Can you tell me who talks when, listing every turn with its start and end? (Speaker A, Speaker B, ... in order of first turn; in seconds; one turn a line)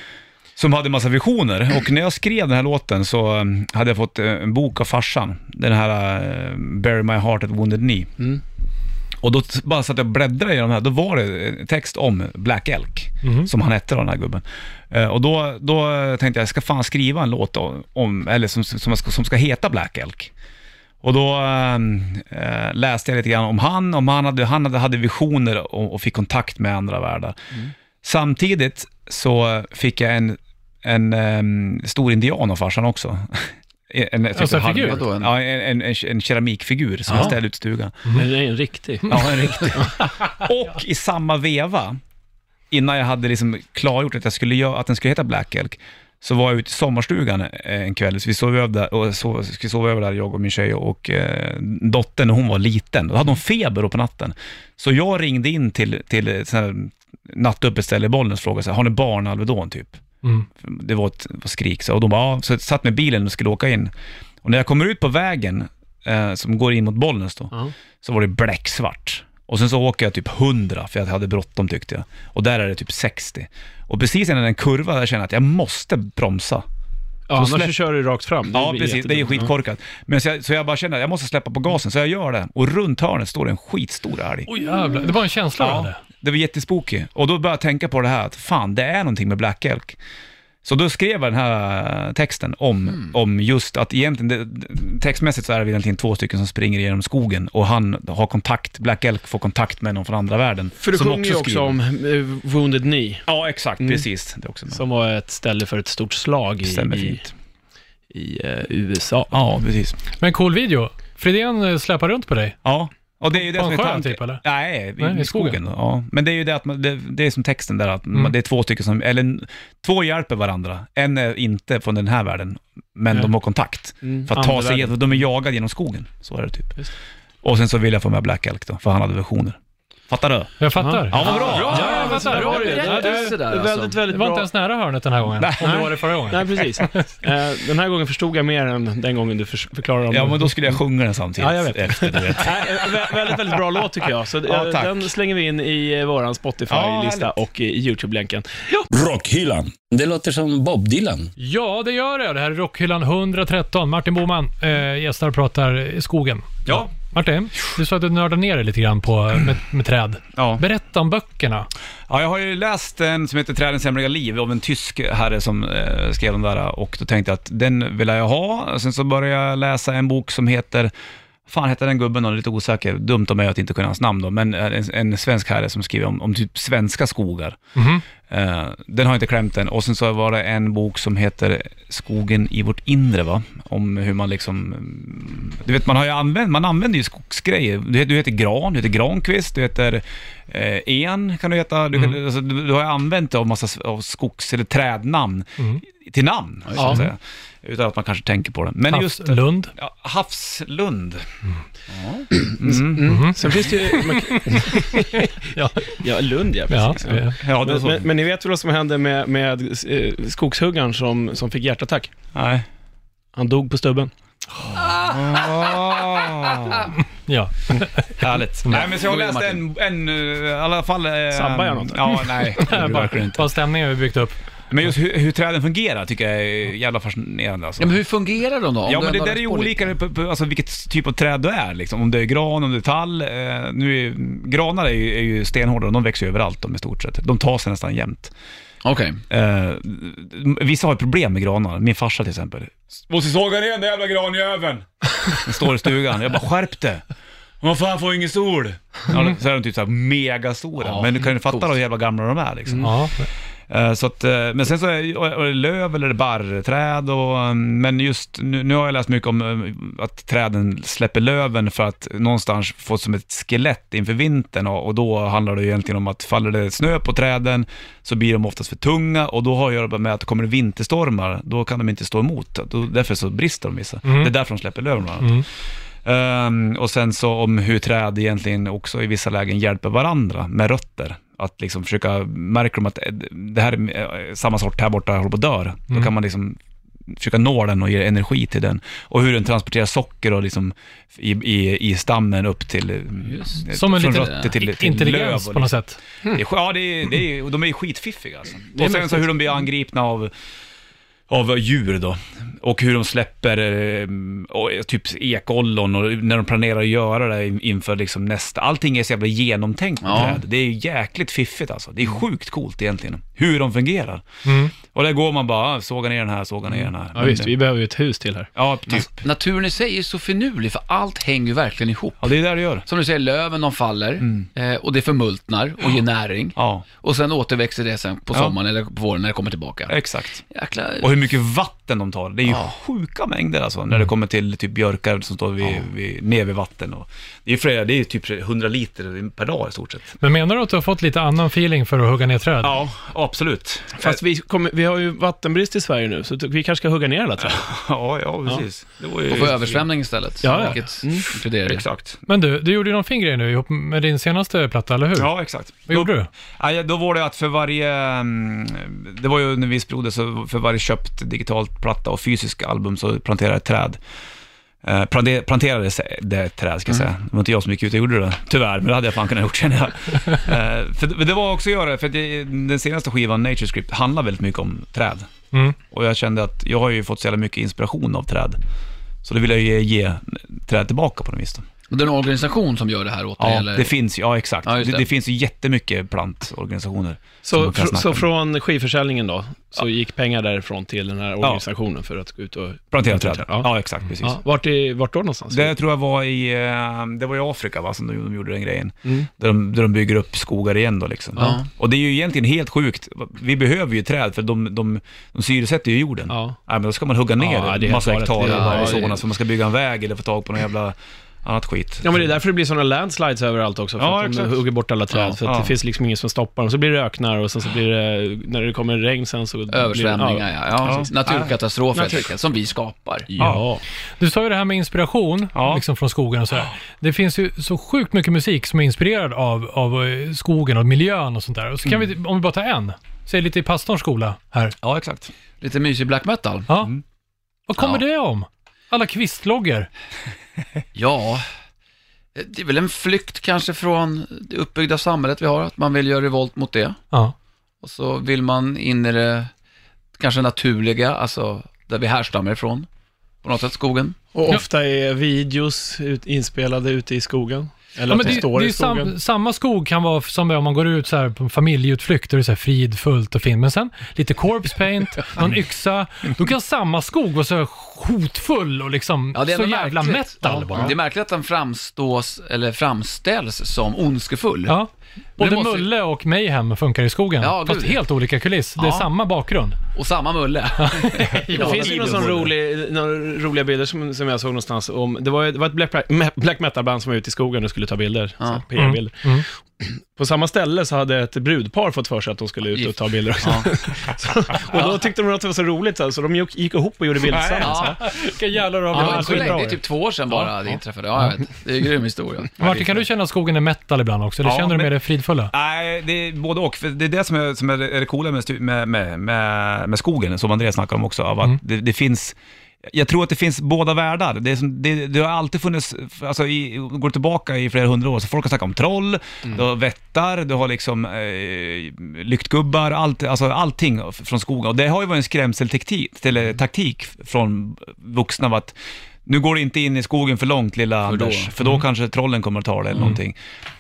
Speaker A: 0.6-8.1
Speaker A: 9.2-20.3
Speaker B: 13.2-13.5
Speaker A: 21.0-27.4
Speaker A: 28.0-38.1
Speaker B: 34.4-35.0
Speaker C: 34.8-35.3
Speaker D: 38.1-40.0
Speaker A: 39.1-42.0
Speaker A: 42.7-60.0
Speaker A: 60.6-63.9
Speaker A: 64.4-76.6
Speaker D: 77.3-79.5
Speaker A: 77.3-77.8
Speaker A: 78.5-84.5
Speaker B: 84.5-86.0
Speaker A: 85.6-90.0
Speaker A: 90.6-101.8
Speaker D: 100.8-103.3
Speaker A: 103.3-104.8
Speaker D: 104.7-107.2
Speaker A: 106.6-107.3
Speaker D: 108.1-109.3
Speaker A: 109.3-110.0
Speaker B: 110.2-112.6
Speaker A: 112.6-126.9
Speaker B: 113.3-114.4
Speaker B: 115.0-115.6
Speaker D: 124.0-125.0
Speaker A: 127.4-129.6
Speaker A: 130.1-132.0
Speaker B: 130.6-133.4
Speaker D: 130.8-134.5
Speaker C: 131.2-134.0
Speaker B: 134.1-137.1
Speaker A: 135.4-135.9
Speaker D: 135.6-140.6
Speaker A: 140.1-143.6
Speaker D: 141.4-148.8
Speaker A: 144.5-145.1
Speaker A: 146.7-147.3
Speaker E: 148.9-151.3
Speaker B: 151.4-161.7
Speaker A: 156.7-156.9
Speaker A: 160.4-160.6
Speaker A: 162.1-170.9
Speaker A: 171.5-177.6
Speaker B: 177.8-178.0
Speaker A: 178.3-201.3
Speaker C: 196.7-197.0
Speaker B: 198.9-199.7
Speaker C: 201.9-202.3
Speaker D: 202.5-205.3
Speaker A: 202.6-203.5
Speaker B: 203.1-206.0
Speaker D: 205.8-212.1
Speaker B: 206.7-207.4
Speaker A: 207.4-208.1
Speaker A: 212.3-212.7
Speaker D: 213.3-214.1
Speaker A: 214.6-216.9
Speaker C: 214.9-215.7
Speaker B: 217.3-218.2
Speaker A: 218.2-223.5
Speaker C: 218.7-219.6
Speaker D: 221.3-222.8
Speaker B: 222.6-224.4
Speaker A: 224.7-228.0
Speaker C: 227.8-229.9
Speaker A: 228.8-238.3
Speaker C: 238.8-239.2
Speaker A: 239.3-247.0
Speaker A: 247.6-252.9
Speaker C: 250.8-251.7
Speaker B: 252.8-253.3
Speaker A: 253.7-275.5
Speaker B: 274.1-274.3
Speaker A: 276.0-295.7
Speaker C: 293.3-293.6
Speaker B: 293.7-296.0
Speaker A: 296.2-300.3
Speaker D: 298.8-299.2
Speaker A: 301.3-314.2
Speaker C: 310.0-310.4
Speaker B: 314.5-314.7
Speaker A: 314.8-317.5
Speaker D: 317.1-318.5
Speaker A: 318.6-319.3
Speaker C: 319.2-322.3
Speaker A: 322.2-322.9
Speaker C: 322.9-329.9
Speaker A: 324.2-324.5
Speaker A: 326.6-326.9
Speaker A: 329.9-330.4
Speaker C: 330.5-331.1
Speaker A: 331.0-340.2
Speaker C: 332.5-332.7
Speaker B: 340.2-342.8
Speaker A: 342.6-344.2
Speaker D: 344.0-347.6
Speaker A: 347.4-349.8
Speaker C: 349.3-351.9
Speaker D: 350.4-351.4
Speaker A: 351.6-352.2
Speaker B: 352.3-355.3
Speaker A: 355.1-364.0
Speaker B: 355.9-356.3
Speaker A: 364.8-375.3
Speaker A: 375.9-378.6
Speaker A: 379.2-381.6
Speaker C: 381.9-383.9
Speaker A: 383.4-388.3
Speaker C: 384.6-385.1
Speaker D: 387.4-393.7
Speaker A: 392.9-394.4
Speaker D: 394.2-395.7
Speaker A: 395.5-412.2
Speaker C: 401.4-401.6
Speaker D: 406.3-406.6
Speaker D: 407.4-409.1
Speaker C: 408.5-409.1
Speaker D: 412.0-421.1
Speaker A: 414.0-414.6
Speaker A: 415.4-415.7
Speaker C: 419.7-423.3
Speaker A: 420.8-421.5
Speaker D: 421.9-422.3
Speaker D: 423.3-423.8
Speaker A: 423.4-423.6
Speaker B: 424.2-434.8
Speaker A: 425.5-425.8
Speaker A: 434.8-435.3
Speaker C: 435.6-436.7
Speaker B: 437.7-439.9
Speaker C: 440.9-441.4
Speaker C: 442.4-447.0
Speaker C: 447.8-449.5
Speaker C: 450.2-452.9
Speaker C: 453.4-454.2
Speaker D: 454.3-459.1
Speaker B: 458.1-471.0
Speaker C: 469.3-474.8
Speaker B: 474.7-479.8
Speaker C: 475.4-475.9
Speaker C: 477.4-478.0
Speaker C: 478.8-479.1
Speaker C: 479.9-482.4
Speaker B: 480.8-481.9
Speaker A: 481.3-482.5
Speaker D: 481.5-498.1
Speaker C: 488.4-488.6
Speaker B: 488.8-489.5
Speaker C: 492.7-493.7
Speaker C: 494.7-495.0
Speaker A: 497.3-497.9
Speaker C: 497.6-498.0
Speaker B: 498.0-499.8
Speaker D: 498.9-499.8
Speaker C: 498.9-503.1
Speaker B: 502.6-505.5
Speaker A: 504.4-504.9
Speaker A: 505.5-528.8
Speaker A: 529.3-533.4
Speaker C: 531.1-531.5